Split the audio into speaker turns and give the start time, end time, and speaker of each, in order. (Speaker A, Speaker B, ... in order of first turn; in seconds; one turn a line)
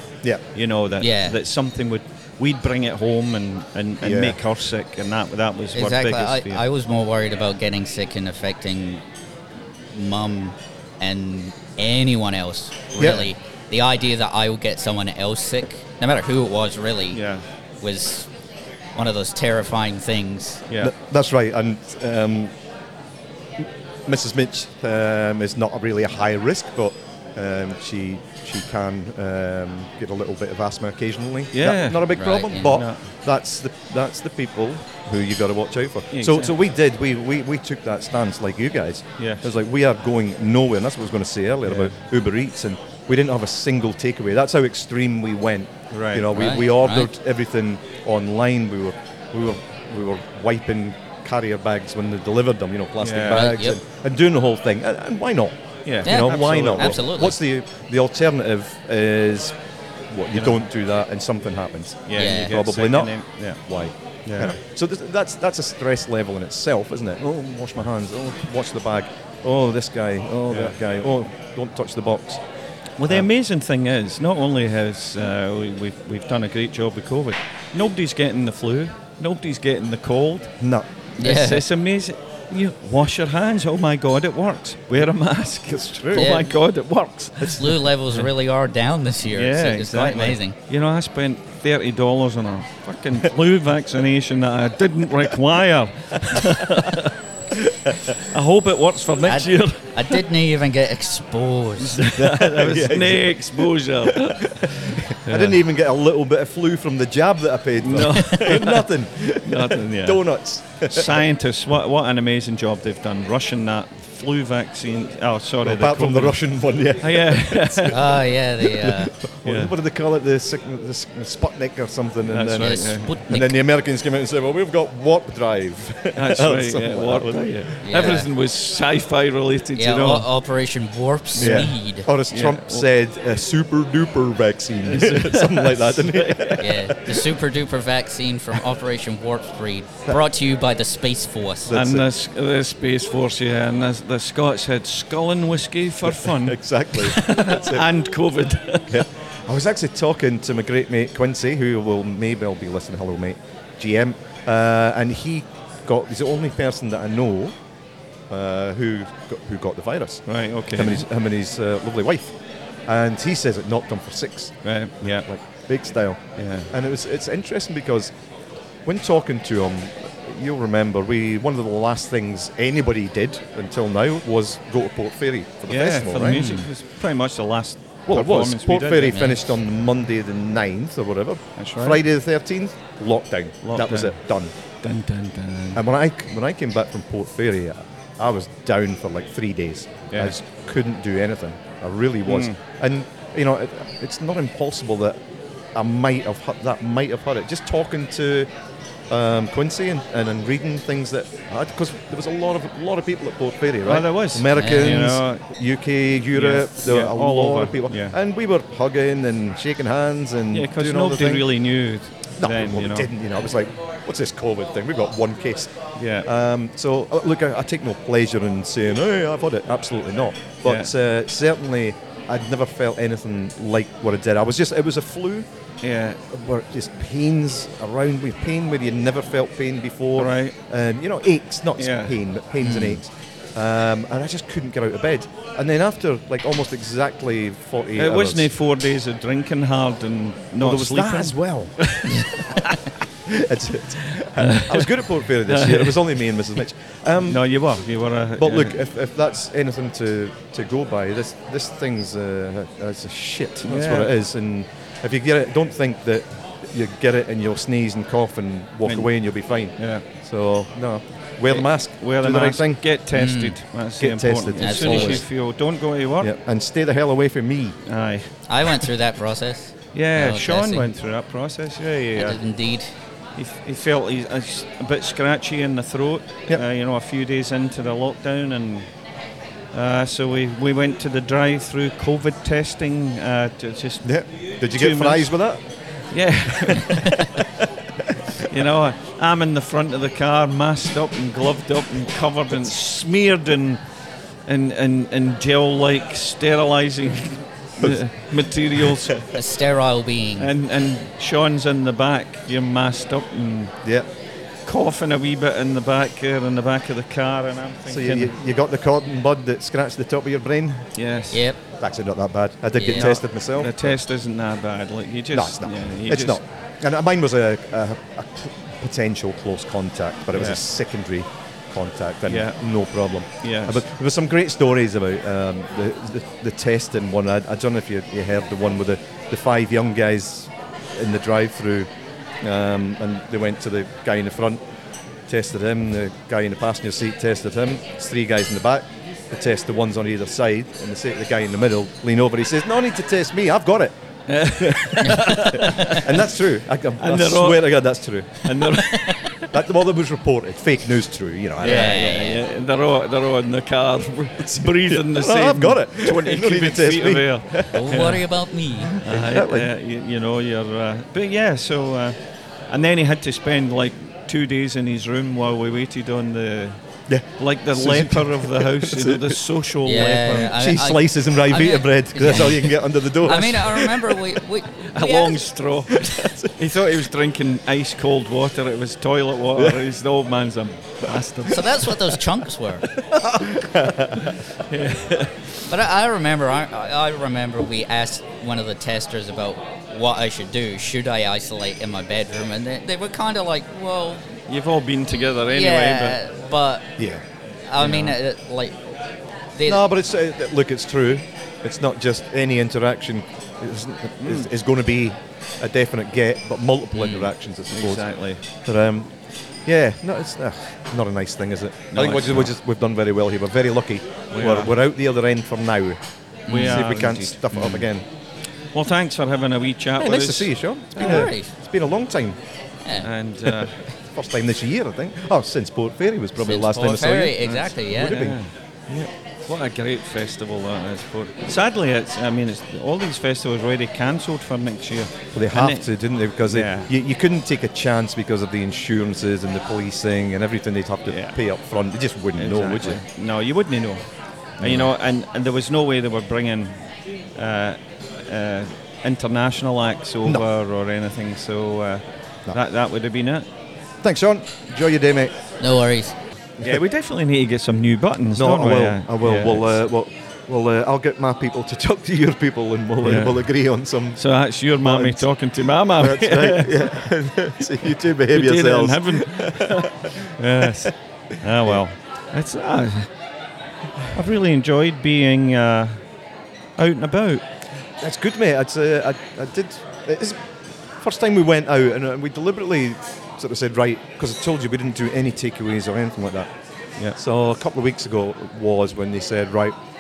Speaker A: 0.5-6.6
Speaker B: 1.0-1.4
Speaker C: 4.0-4.4
Speaker B: 5.8-9.0
Speaker B: 9.9-17.2
Speaker C: 13.0-13.3
Speaker A: 17.1-17.4
Speaker B: 17.8-18.3
Speaker B: 18.9-20.6
Speaker C: 20.8-22.5
Speaker C: 23.6-59.6
Speaker A: 31.5-32.1
Speaker B: 32.1-32.8
Speaker A: 32.6-33.0
Speaker A: 36.1-36.5
Speaker A: 39.2-39.4
Speaker A: 41.7-42.0
Speaker A: 45.9-46.4
Speaker B: 46.3-47.1
Speaker A: 53.0-53.6
Speaker B: 53.3-53.8
Speaker A: 55.9-57.0
Speaker B: 56.0-57.4
Speaker C: 60.1-72.4
Speaker A: 62.1-63.6
Speaker B: 62.1-62.5
Speaker A: 64.2-64.6
Speaker A: 70.5-70.8
Speaker A: 73.0-80.5
Speaker C: 80.6-80.9
Speaker A: 81.2-88.3
Speaker B: 81.2-81.7
Speaker C: 85.7-86.4
Speaker B: 86.1-86.5
Speaker B: 87.5-90.5
Speaker A: 89.3-97.1
Speaker A: 98.2-100.2
Speaker B: 99.2-102.1
Speaker A: 101.8-105.6
Speaker C: 102.1-111.2
Speaker A: 107.8-110.2
Speaker A: 110.9-116.4
Speaker C: 115.6-128.2
Speaker A: 117.0-118.0
Speaker B: 117.9-119.1
Speaker A: 119.5-119.7
Speaker A: 122.3-123.2
Speaker B: 122.5-123.6
Speaker A: 126.2-130.3
Speaker B: 127.8-128.3
Speaker B: 129.8-132.1
Speaker A: 131.3-131.7
Speaker C: 131.4-137.1
Speaker A: 132.3-132.9
Speaker A: 134.9-136.7
Speaker B: 136.6-141.7
Speaker C: 141.7-142.1
Speaker A: 141.7-149.1
Speaker C: 146.0-147.9
Speaker C: 148.9-157.6
Speaker C: 158.3-162.3
Speaker A: 160.3-161.1
Speaker C: 162.9-164.5
Speaker A: 164.6-165.3
Speaker C: 165.3-168.1
Speaker A: 166.4-166.7
Speaker C: 168.8-176.6
Speaker A: 175.7-179.3
Speaker B: 176.3-176.7
Speaker C: 178.1-184.5
Speaker A: 181.6-182.0
Speaker A: 183.6-184.2
Speaker A: 184.8-185.8
Speaker C: 185.7-195.2
Speaker A: 192.3-192.6
Speaker C: 195.7-198.5
Speaker C: 199.1-211.5
Speaker A: 203.8-205.4
Speaker B: 204.6-204.9
Speaker A: 206.3-208.2
Speaker A: 210.5-213.1
Speaker C: 212.4-225.5
Speaker A: 216.0-216.3
Speaker A: 220.7-220.9
Speaker A: 225.8-226.2
Speaker C: 226.3-238.5
Speaker A: 230.2-230.6
Speaker A: 231.8-232.2
Speaker B: 232.7-233.0
Speaker A: 238.0-242.8
Speaker C: 240.6-242.2
Speaker C: 243.3-247.5
Speaker A: 244.2-246.2
Speaker A: 247.2-248.8
Speaker C: 248.4-262.9
Speaker A: 253.7-254.1
Speaker A: 258.9-259.1
Speaker A: 259.8-260.1
Speaker A: 261.5-266.3
Speaker B: 263.1-263.6
Speaker C: 264.0-265.2
Speaker B: 264.6-265.2
Speaker C: 266.2-267.8
Speaker A: 267.9-268.7
Speaker B: 268.5-270.9
Speaker A: 269.9-272.4
Speaker B: 272.1-272.9
Speaker A: 273.4-278.9
Speaker A: 279.7-285.4
Speaker C: 284.0-285.6
Speaker A: 286.1-287.2
Speaker C: 286.5-288.2
Speaker A: 288.4-293.8
Speaker A: 294.4-299.2
Speaker C: 298.8-299.1
Speaker B: 299.3-300.5
Speaker A: 300.4-303.7
Speaker A: 304.7-308.3
Speaker C: 307.9-310.9
Speaker A: 310.9-311.5
Speaker B: 311.3-311.6
Speaker C: 311.7-314.0
Speaker B: 312.8-313.1
Speaker A: 312.9-316.4
Speaker C: 315.3-331.9
Speaker A: 320.3-320.6
Speaker A: 322.3-322.6
Speaker A: 323.4-323.8
Speaker C: 332.4-334.6
Speaker C: 335.3-348.6
Speaker A: 344.3-346.2
Speaker A: 347.0-347.8
Speaker A: 348.4-349.5
Speaker B: 348.8-349.2
Speaker C: 349.5-352.0
Speaker A: 351.6-358.3
Speaker B: 351.6-352.4
Speaker C: 354.4-357.9
Speaker B: 357.7-359.0
Speaker C: 358.8-359.7
Speaker A: 359.0-362.2
Speaker A: 362.7-366.8
Speaker C: 367.1-369.4
Speaker A: 367.4-370.6
Speaker B: 369.8-375.5
Speaker C: 370.4-374.2
Speaker A: 374.9-382.0
Speaker C: 375.9-376.5
Speaker C: 379.6-379.8
Speaker B: 381.5-382.9
Speaker C: 383.0-384.4
Speaker A: 384.2-385.5
Speaker B: 385.7-394.3
Speaker A: 394.5-396.2
Speaker B: 395.5-396.9
Speaker C: 397.0-397.2
Speaker B: 397.7-398.9
Speaker A: 397.8-398.2
Speaker B: 399.5-399.8
Speaker C: 399.6-409.1
Speaker A: 404.2-404.5
Speaker A: 407.0-408.4
Speaker C: 409.6-416.0
Speaker A: 411.9-412.5
Speaker A: 414.3-414.7
Speaker B: 416.5-416.8
Speaker A: 416.5-417.9
Speaker C: 416.5-418.1
Speaker A: 418.7-421.3
Speaker C: 420.0-422.4
Speaker B: 421.0-421.5
Speaker A: 423.0-423.8
Speaker C: 423.9-427.4
Speaker B: 426.4-428.3
Speaker A: 427.4-428.5
Speaker C: 427.9-428.4
Speaker A: 429.5-435.9
Speaker C: 435.3-443.0
Speaker A: 436.4-436.9
Speaker A: 441.1-441.4
Speaker A: 442.4-444.0
Speaker C: 444.6-444.9
Speaker A: 444.6-453.5
Speaker C: 454.0-455.4
Speaker B: 455.6-456.1
Speaker A: 456.6-459.8
Speaker C: 458.4-464.2
Speaker A: 463.0-463.5
Speaker A: 464.1-467.1
Speaker C: 464.8-465.3
Speaker C: 466.0-470.9
Speaker A: 468.2-473.1
Speaker A: 474.1-476.0
Speaker A: 476.8-477.4
Speaker C: 478.0-486.5
Speaker C: 487.2-489.7